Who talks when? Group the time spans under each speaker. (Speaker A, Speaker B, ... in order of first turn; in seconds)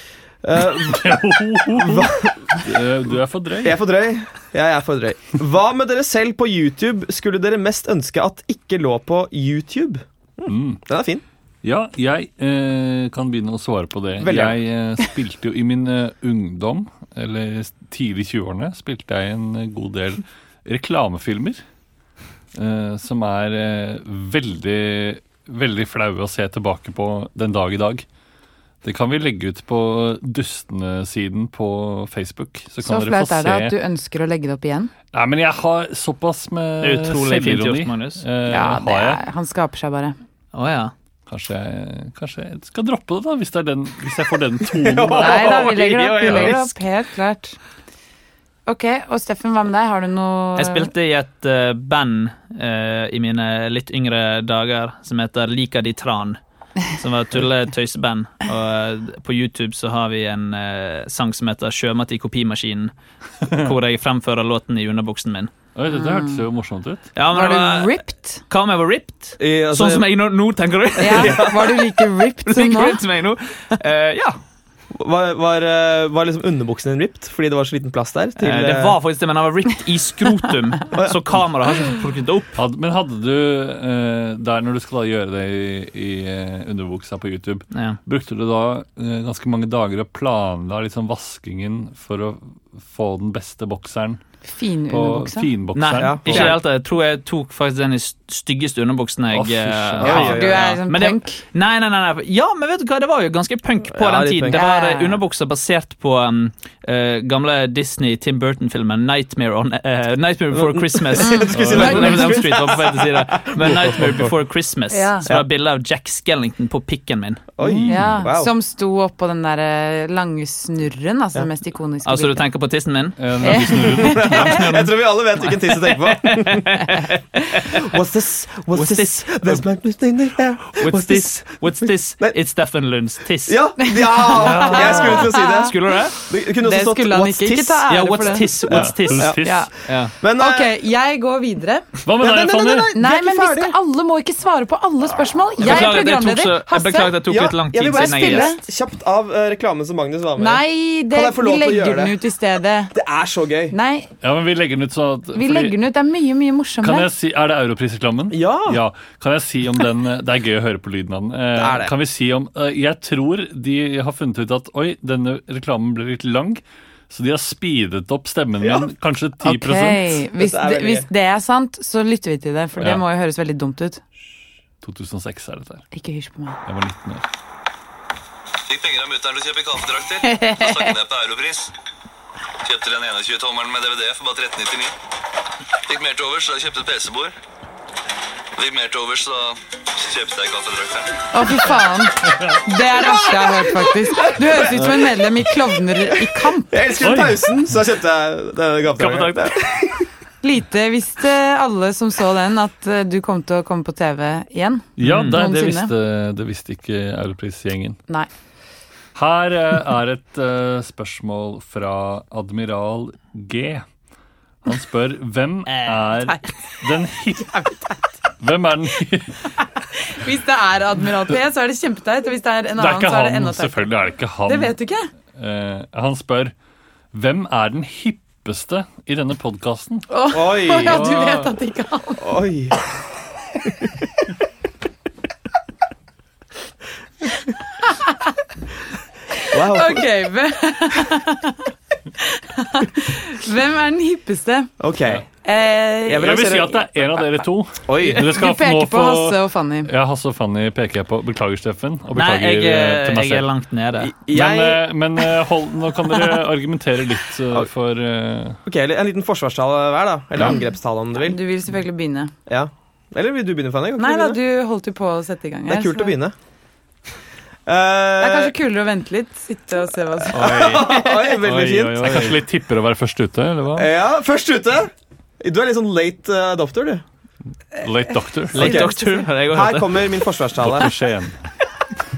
Speaker A: 0.4-1.2, 1.8-2.6, 3.6-11.2, 14.2-14.6, 44.8-46.7, 69.4-70.1, 71.0-71.8, 75.0-79.0, 81.0-81.2, 96.0-96.6, 100.0-100.7, 103.9-104.6, 110.5-114.3, 117.6-118.5, 124.0-132.4, 133.5-137.8, 139.2-139.5, 140.2-140.7, 142.2-143.8, 147.3-152.2, 152.9-153.8, 158.3-158.8, 161.6-161.9, 170.4-171.1, 194.2-195.0, 196.7-200.1, 230.3-231.2, 232.2-232.8, 239.5-240.1, 244.8-245.2, 246.1-246.8, 247.9-248.3, 254.0-255.0, 258.6-261.4, 262.5-264.4, 265.7-266.4, 267.7-268.5, 270.3-272.3, 273.8-277.0, 278.6-278.9, 279.5-280.9
Speaker B: 0.6-3.8, 10.5-10.8, 11.6-21.6, 22.5-28.1, 28.8-33.8, 35.1-39.2, 41.3-46.6, 65.8-67.1, 82.5-94.2, 94.9-96.6, 99.3-100.5, 111.5-112.2, 117.7-118.2, 123.2-124.7, 134.5-135.2, 138.7-139.7, 142.0-142.9, 154.2-155.8, 156.8-170.2, 172.8-173.0, 174.8-175.8, 176.7-177.2, 192.3-192.6, 197.0-197.5, 205.0-208.0, 209.2-213.9, 214.7-217.6, 218.4-219.4, 222.8-224.8, 225.3-226.5, 227.1-230.1, 246.2-253.5, 254.3-258.6, 272.0-273.9, 277.8-278.9, 280.6-281.4
Speaker C: 32.8-34.9, 38.5-40.1, 45.1-47.6, 48.7-50.9, 65.9-66.4, 67.3-68.4, 71.0-73.0, 94.5-95.5, 100.0-101.4, 104.5-105.2, 111.2-112.4, 114.9-115.3, 117.9-122.4, 123.4-124.5, 133.8-135.8, 136.6-138.8, 139.4-139.7, 140.2-141.9, 142.9-147.2, 147.9-148.6, 150.4-152.9, 153.7-154.1, 155.3-157.1, 169.4-174.0, 175.9-176.6, 180.2-181.0, 191.3-196.7, 200.4-205.9, 217.4-218.1, 220.0-225.1, 230.1-232.2, 239.4-244.7, 245.4-246.4, 248.2-249.9, 261.2-262.3, 264.0-266.1, 268.2-271.1, 278.6-279.3
Speaker D: 36.8-38.2, 40.5-40.9, 50.6-62.9, 63.5-65.5, 67.2-71.8, 72.5-74.4, 78.4-82.5, 87.7-88.0, 95.7-117.5, 122.0-123.2, 124.4-127.1, 128.7-129.7, 130.8-133.6, 134.6-136.2, 137.9-139.3, 139.9-140.1, 145.6-148.5, 199.0-199.6, 205.0-205.4, 215.7-216.1, 252.2-254.1, 270.3-272.4, 278.5-280.0
Speaker E: 178.7-181.7, 182.7-184.9, 185.9-187.3, 188.6-191.0